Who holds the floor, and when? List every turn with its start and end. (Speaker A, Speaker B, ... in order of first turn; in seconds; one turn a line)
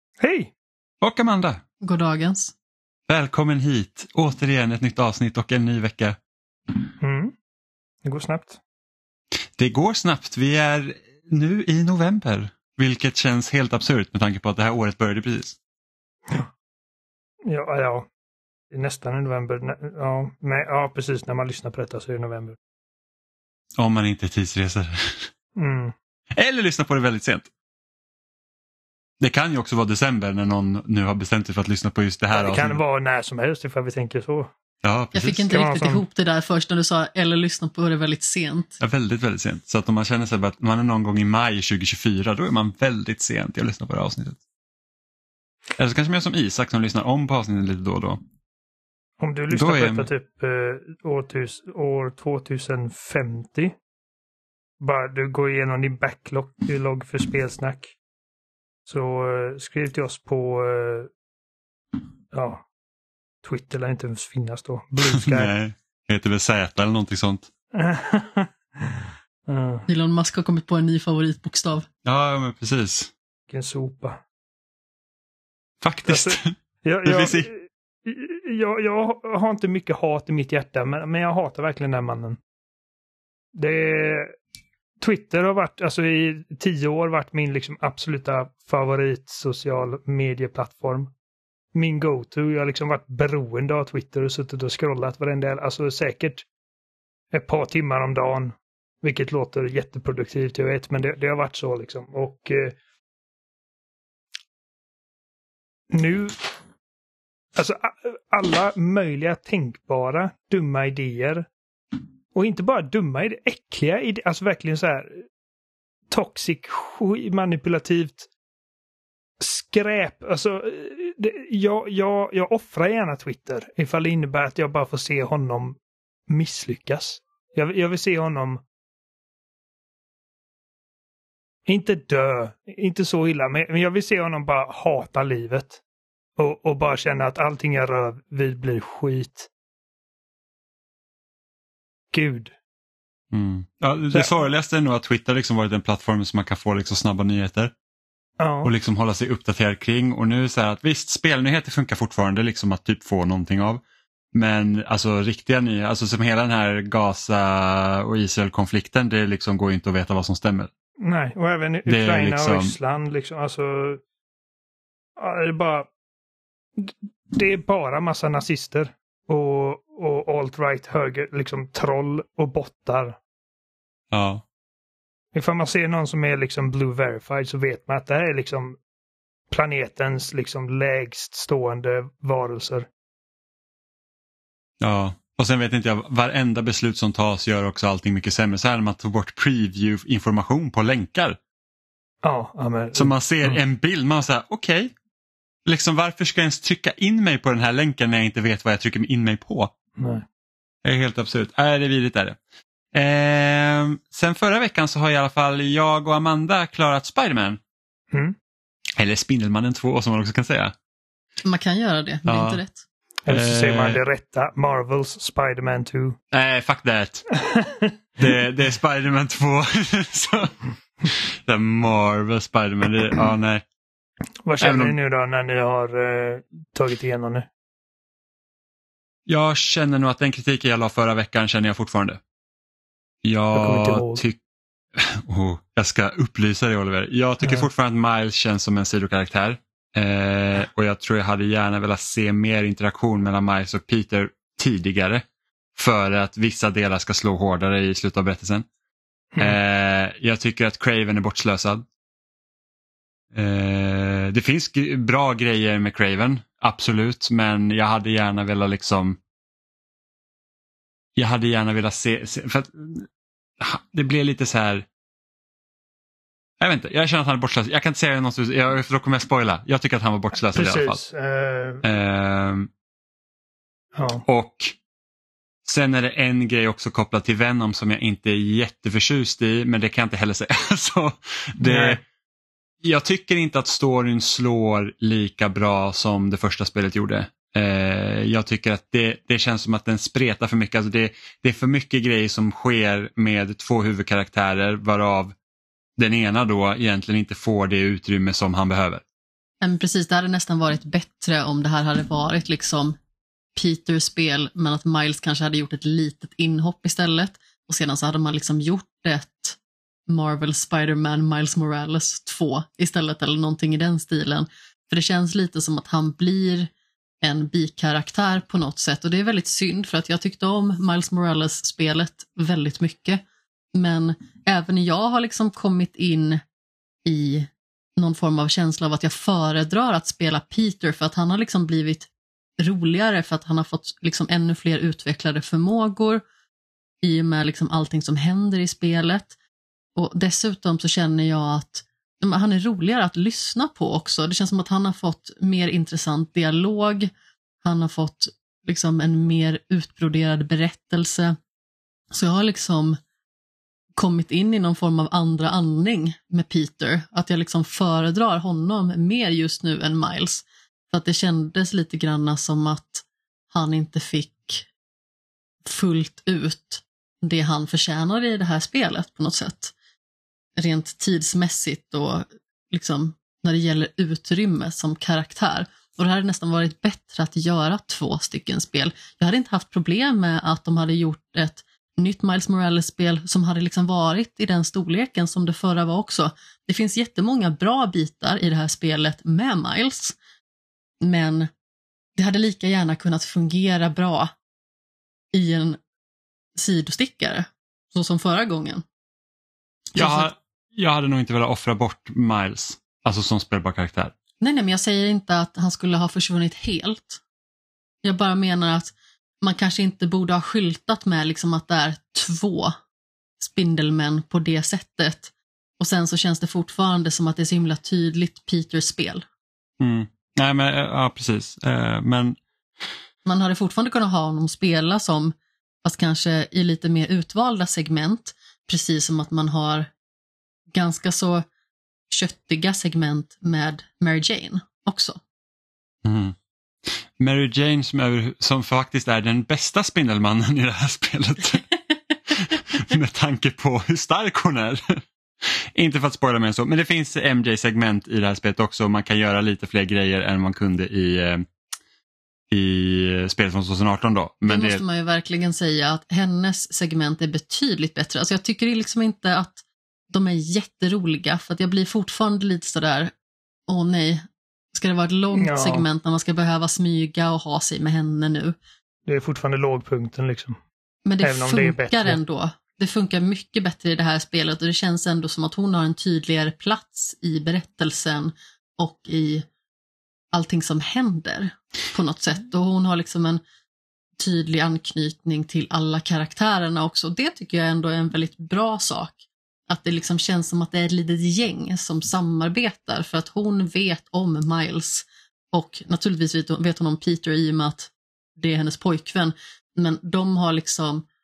Speaker A: 0.2-0.5
Speaker B: 1.0-1.6
Speaker C: 1.8-2.5
Speaker B: 3.1-6.2
Speaker A: 7.0-7.3
Speaker A: 8.0-8.6
Speaker B: 9.6-15.6
Speaker A: 17.5-18.1
Speaker A: 18.7-22.6
Speaker B: 23.8-25.3
Speaker A: 25.6-25.9
Speaker B: 26.3-27.5
Speaker B: 29.2-32.8
Speaker A: 32.3-34.5
Speaker B: 34.8-35.5
Speaker C: 35.1-38.8
Speaker A: 35.5-36.0
Speaker B: 38.8-44.4
Speaker B: 45.8-48.2
Speaker A: 49.2-53.8
Speaker B: 49.5-50.1
Speaker A: 54.8-58.0
Speaker A: 58.9-61.1
Speaker A: 62.3-62.6
Speaker A: 63.4-65.5
Speaker B: 65.1-67.5
Speaker A: 67.7-69.9
Speaker C: 69.9-71.9
Speaker B: 72.0-73.1
Speaker A: 73.5-74.2
Speaker B: 75.8-76.5
Speaker A: 76.1-82.4
Speaker B: 77.0-77.5
Speaker A: 83.5-84.3
Speaker A: 85.0-91.1
Speaker A: 91.7-96.5
Speaker A: 97.3-102.8
Speaker A: 105.9-106.4
Speaker A: 107.5-111.5
Speaker A: 112.3-115.2
Speaker A: 116.1-118.3
Speaker A: 119.4-125.8
Speaker A: 126.3-128.6
Speaker A: 131.7-135.8
Speaker A: 136.4-139.5
Speaker A: 142.1-142.5
Speaker B: 143.3-147.7
Speaker A: 148.4-148.7
Speaker B: 148.6-153.8
Speaker B: 154.3-160.7
Speaker A: 161.0-164.0
Speaker B: 161.9-162.7
Speaker A: 165.2-165.9
Speaker A: 166.8-173.2
Speaker B: 174.1-174.4
Speaker A: 175.3-178.8
Speaker A: 179.5-182.9
Speaker B: 184.8-191.4
Speaker A: 192.2-193.6
Speaker B: 192.9-194.9
Speaker B: 195.7-199.7
Speaker A: 200.0-200.2
Speaker B: 200.8-202.4
Speaker B: 202.9-207.6
Speaker B: 209.0-210.7
Speaker C: 211.4-212.8
Speaker B: 212.3-212.6
Speaker A: 213.3-216.2
Speaker B: 213.3-214.0
Speaker B: 216.3-217.3
Speaker A: 217.4-217.9
Speaker B: 218.2-220.6
Speaker B: 221.1-223.6
Speaker A: 224.4-227.5
Speaker B: 224.6-225.0
Speaker B: 229.3-232.2
Speaker B: 233.2-234.4
Speaker A: 233.5-234.2
Speaker B: 235.0-245.2
Speaker A: 237.4-237.7
Speaker B: 245.8-248.7
Speaker B: 249.4-251.9
Speaker B: 253.3-259.2
Speaker B: 261.2-263.1
Speaker B: 263.6-264.9
Speaker B: 266.6-271.0
Speaker A: 270.5-271.8
Speaker B: 271.8-272.7
Speaker A: 273.9-274.2
Speaker B: 274.3-274.8
Speaker B: 275.6-282.0
Speaker A: 281.6-282.0
Speaker B: 282.8-295.4
Speaker B: 296.0-299.0
Speaker C: 299.6-303.0
Speaker C: 303.6-309.6
Speaker C: 310.1-316.7
Speaker C: 317.2-323.2
Speaker C: 323.8-326.4
Speaker C: 327.1-332.1
Speaker C: 332.6-336.2
Speaker C: 337.0-339.3
Speaker C: 340.0-347.1
Speaker C: 347.6-351.4
Speaker C: 352.1-353.0
Speaker C: 354.0-364.7
Speaker C: 365.6-369.7
Speaker C: 370.6-390.2
Speaker C: 391.0-391.5
Speaker C: 392.2-394.3
Speaker C: 395.3-395.8
Speaker C: 396.6-398.8
Speaker B: 399.9-404.1
Speaker C: 400.0-400.3
Speaker C: 404.4-407.2
Speaker C: 408.0-412.8
Speaker C: 413.4-419.2
Speaker B: 419.8-422.4
Speaker C: 423.2-429.9
Speaker C: 430.7-431.5
Speaker C: 432.1-435.2
Speaker B: 436.0-436.4
Speaker B: 436.9-441.7
Speaker B: 442.3-444.8
Speaker B: 445.4-451.4
Speaker B: 452.5-454.8
Speaker C: 454.5-463.1
Speaker C: 463.7-464.2
Speaker C: 464.7-468.6
Speaker A: 465.4-465.9
Speaker A: 469.1-470.6
Speaker C: 471.1-479.5
Speaker A: 471.2-472.2
Speaker C: 480.3-483.4
Speaker C: 484.2-489.2
Speaker C: 489.7-501.1